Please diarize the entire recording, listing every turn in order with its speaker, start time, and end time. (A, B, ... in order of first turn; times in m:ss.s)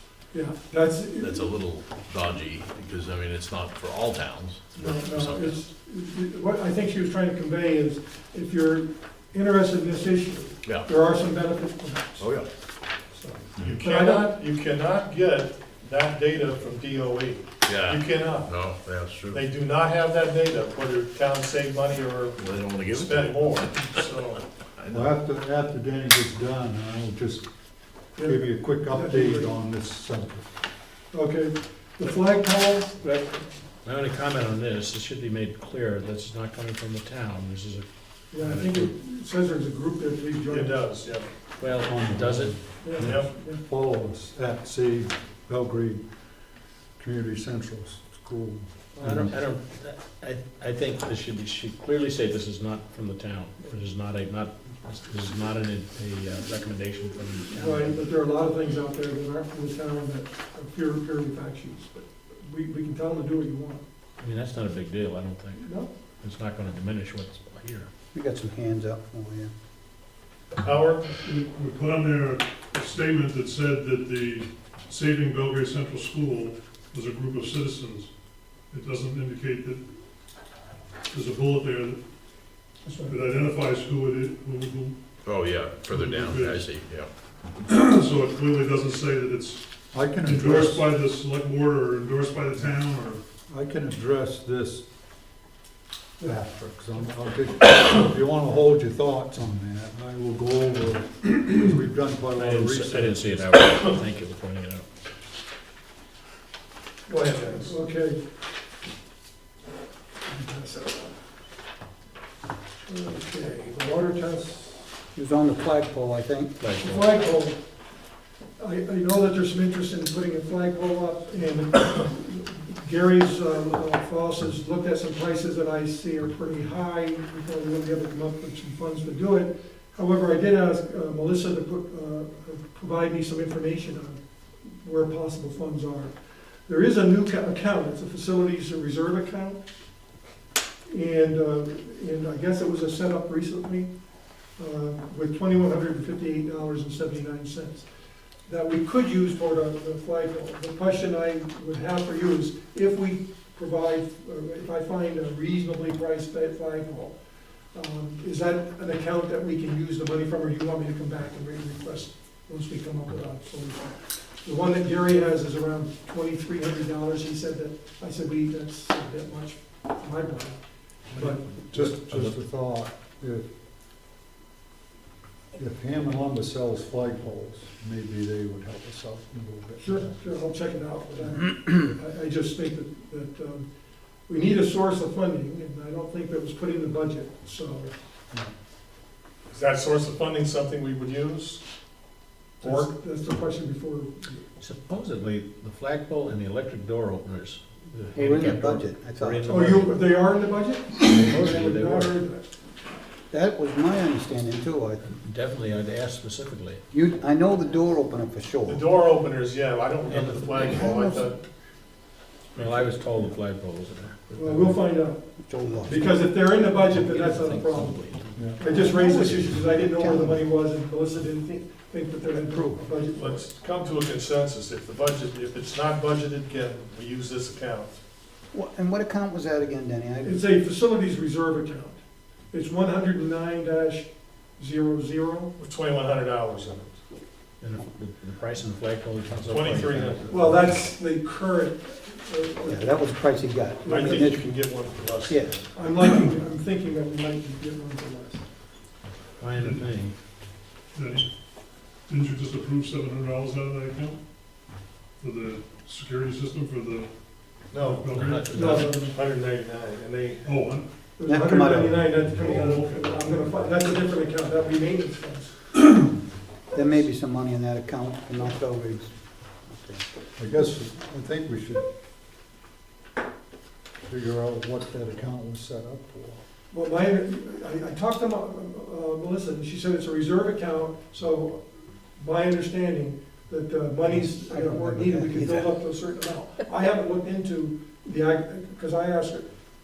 0:00.3-0:01.4 A
0:01.2-0:05.6 B
0:04.8-0:12.3 A
0:12.2-0:12.5 B
0:13.1-0:14.4 A
0:13.6-0:18.6 C
0:17.6-0:19.5 B
0:19.3-0:24.4 C
0:22.4-0:23.8 B
0:24.8-0:25.1 B
0:24.9-0:27.5 D
0:28.2-0:29.6 A
0:28.2-0:30.5 D
0:31.1-0:33.4 A
0:33.8-0:38.9 E
0:38.3-0:40.8 A
0:40.4-0:41.3 C
0:41.6-0:43.3 E
0:41.8-0:42.6 D
0:42.8-0:43.6 A
0:43.0-0:43.3 C
0:43.3-0:46.0 D
0:47.0-0:48.7 D
0:49.0-0:49.4 A
0:49.0-0:58.0 E
0:57.5-1:03.8 A
1:04.2-1:07.9 E
1:05.6-1:05.9 A
1:08.1-1:09.5 F
1:10.6-1:11.2 C
1:11.2-1:18.1 G
1:18.7-1:19.8 G
1:21.1-1:22.0 G
1:22.8-1:23.2 A
1:23.1-1:25.0 G
1:25.2-1:27.1 B
1:25.8-1:26.7 G
1:27.6-1:33.2 G
1:29.9-1:30.8 D
1:33.5-1:34.8 D
1:36.2-1:43.4 D
1:42.4-1:44.9 E
1:47.1-1:47.7 C
1:47.6-1:48.2 A
1:50.3-1:51.2 A
1:52.9-1:54.8 A
1:55.2-1:56.6 F
1:56.6-1:57.2 E
1:56.8-1:57.6 A
1:58.6-2:16.2 A
2:16.7-2:19.6 A
2:20.9-2:23.9 A
2:24.6-2:27.9 A
2:28.5-2:37.2 A
2:37.7-2:50.6 A
2:51.1-2:51.7 A
2:51.6-2:53.5 D
2:55.5-3:00.1 D
2:59.8-3:03.7 A
3:04.3-3:07.9 A
3:09.5-3:11.6 C
3:12.6-3:12.9 C
3:12.6-3:14.4 A
3:14.6-3:20.0 E
3:18.2-3:19.4 F
3:19.4-3:22.5 A
3:21.0-3:22.2 E
3:23.3-3:25.1 F
3:25.0-3:26.8 E
3:26.9-3:28.8 F
3:28.7-3:31.4 C
3:30.1-3:31.2 E
3:32.5-3:34.8 E
3:32.6-3:32.9 C
3:34.4-3:35.3 A
3:35.5-3:36.1 F
3:35.8-3:43.7 A
3:36.8-3:39.5 E
3:38.4-3:38.6 D
3:38.7-3:40.3 F
3:42.5-3:42.8 F
3:43.2-3:48.0 C
3:48.5-3:50.4 F
3:50.2-3:52.0 A
3:52.5-3:55.5 A
3:55.6-3:57.0 C
3:57.6-4:00.6 E
3:59.5-4:00.4 C
4:00.3-4:03.1 A
4:02.7-4:04.4 F
4:03.8-4:05.7 C
4:03.9-4:04.2 A
4:05.3-4:05.6 F
4:05.7-4:08.5 A
4:09.4-4:10.2 E
4:09.5-4:09.8 G
4:11.0-4:11.3 G
4:12.1-4:14.2 G
4:15.2-4:17.1 G
4:17.7-4:20.5 C
4:17.8-4:18.8 G
4:18.1-4:18.6 E
4:18.2-4:18.8 B
4:18.5-4:19.2 A
4:20.4-4:20.9 G
4:21.2-4:25.8 A
4:21.3-4:22.0 F
4:22.2-4:23.2 G
4:26.7-4:29.1 F
4:29.6-4:30.0 F
4:30.4-4:31.9 D
4:34.1-4:36.4 D
4:36.7-4:41.6 A
4:42.2-4:49.5 A
4:44.5-4:45.5 F